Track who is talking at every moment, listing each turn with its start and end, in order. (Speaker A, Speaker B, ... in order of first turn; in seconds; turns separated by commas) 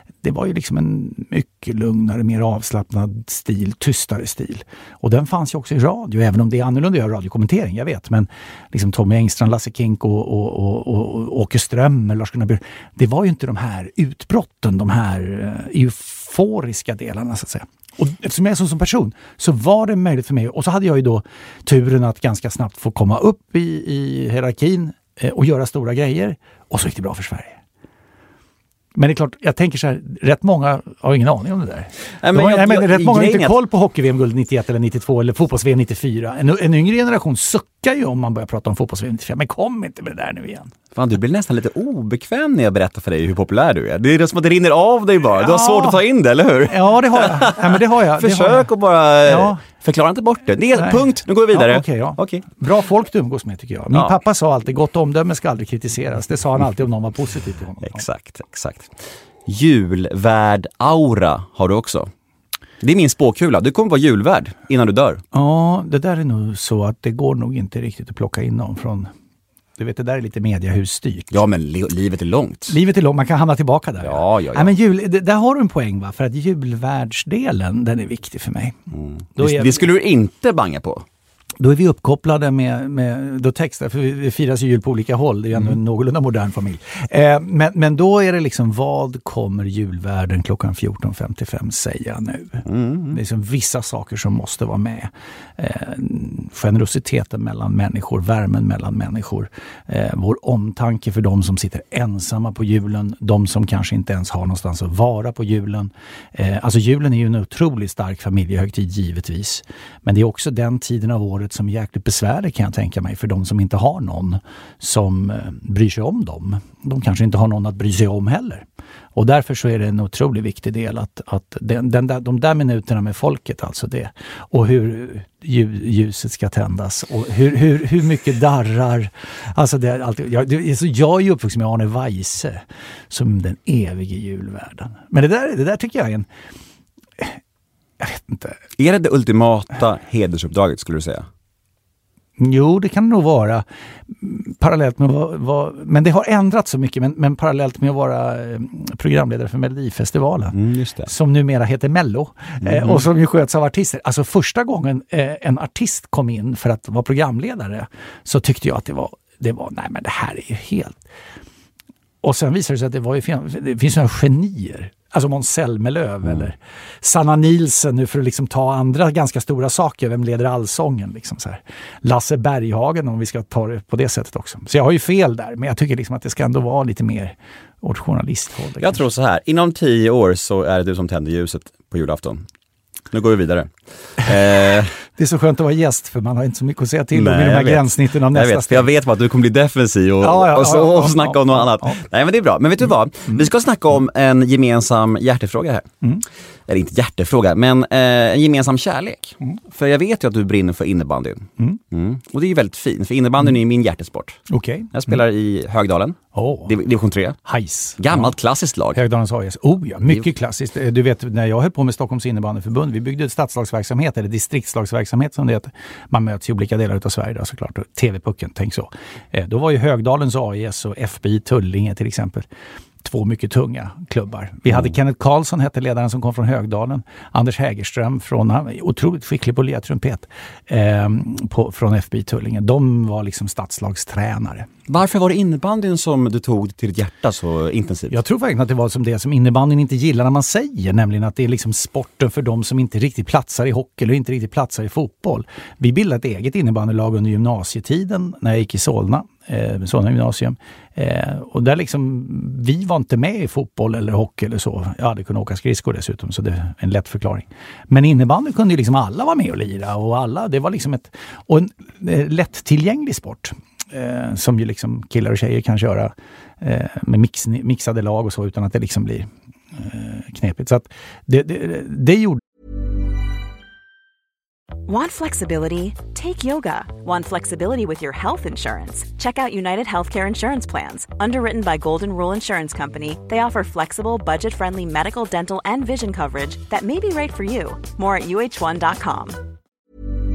Speaker A: 0.2-27.6, Speaker A: 28.9-40.7, Speaker B: 32.2-33.5, Speaker B: 40.9-52.5, Speaker A: 45.4-46.0, Speaker A: 46.7-48.7, Speaker A: 49.2-49.6, Speaker A: 50.7-58.0, Speaker B: 53.9-54.2, Speaker B: 57.8-58.9, Speaker B: 59.5-62.1, Speaker B: 62.8-65.2, Speaker A: 65.3-69.1, Speaker A: 69.8-71.4, Speaker B: 71.3-72.8, Speaker A: 72.7-78.8, Speaker B: 74.0-74.7, Speaker B: 78.9-81.0, Speaker A: 79.3-79.8, Speaker A: 81.6-118.6, Speaker B: 92.7-93.2, Speaker A: 119.1-136.3, Speaker A: 138.0-138.6, Speaker B: 138.8-141.3, Speaker A: 142.4-161.0, Speaker B: 150.5-151.1, Speaker B: 152.6-153.1, Speaker A: 162.2-179.0, Speaker B: 178.8-182.4, Speaker B: 183.1-184.9, Speaker A: 185.1-188.9, Speaker B: 187.1-195.9, Speaker A: 190.2-192.0, Speaker B: 196.7-207.4, Speaker A: 204.5-204.9, Speaker A: 206.3-206.7, Speaker A: 207.4-208.3, Speaker B: 208.0-209.0, Speaker A: 208.9-222.4, Speaker A: 223.0-234.7, Speaker B: 234.9-238.2, Speaker A: 238.1-272.4, Speaker C: 274.9-289.4